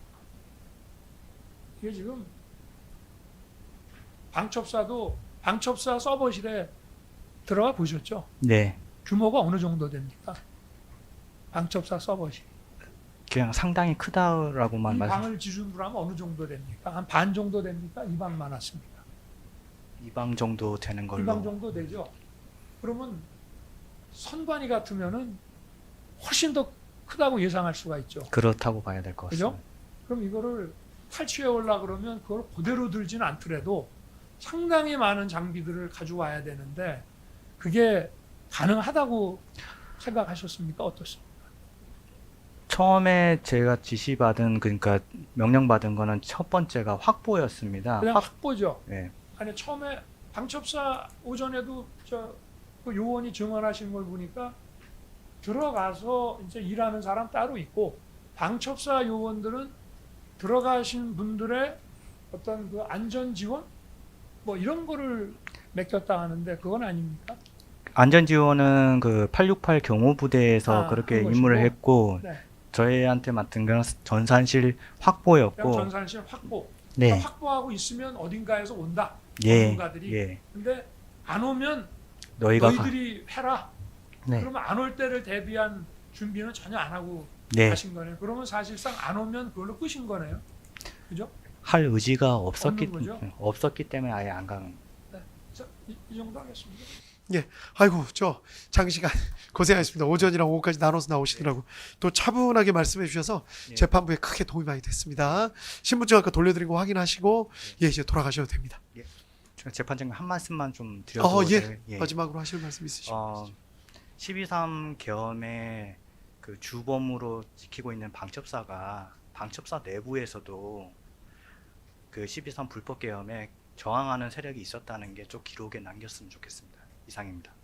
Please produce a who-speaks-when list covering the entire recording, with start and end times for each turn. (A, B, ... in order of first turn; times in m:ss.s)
0:01.8-0:02.3 A
0:04.3-0:06.7 A
0:07.4-0:08.3 A
0:08.4-0:08.8 B
0:09.0-0:10.4 A
0:11.5-0:12.4 A
0:13.3-0:15.2 B
0:14.9-0:19.0 A
0:20.0-0:21.6 B
0:21.2-0:22.1 A
0:22.8-0:23.3 A
0:24.1-0:25.4 A
0:26.2-0:28.3 A
0:28.3-0:29.6 B
0:29.3-0:37.0 A
0:37.6-0:39.4 A
0:40.0-0:41.3 A
0:42.7-0:48.3 B
0:48.0-0:48.8 A
0:48.9-0:49.1 B
0:49.4-0:54.6 A
0:55.4-0:59.7 A
1:00.4-1:01.8 A
1:02.3-1:03.7 A
1:04.4-1:07.4 A
1:07.9-1:15.9 B
1:10.7-1:12.4 A
1:15.6-1:21.9 A
1:17.0-1:17.3 B
1:19.4-1:20.4 B
1:22.4-1:22.9 B
1:22.5-1:23.7 A
1:24.4-1:30.4 A
1:27.5-1:27.8 B
1:31.6-1:34.8 B
1:32.6-1:33.2 A
1:35.1-1:36.9 A
1:37.3-1:48.8 C
1:48.9-1:52.2 B
1:51.2-1:53.3 C
1:53.0-1:53.6 B
1:54.2-2:00.9 B
2:02.1-2:07.5 B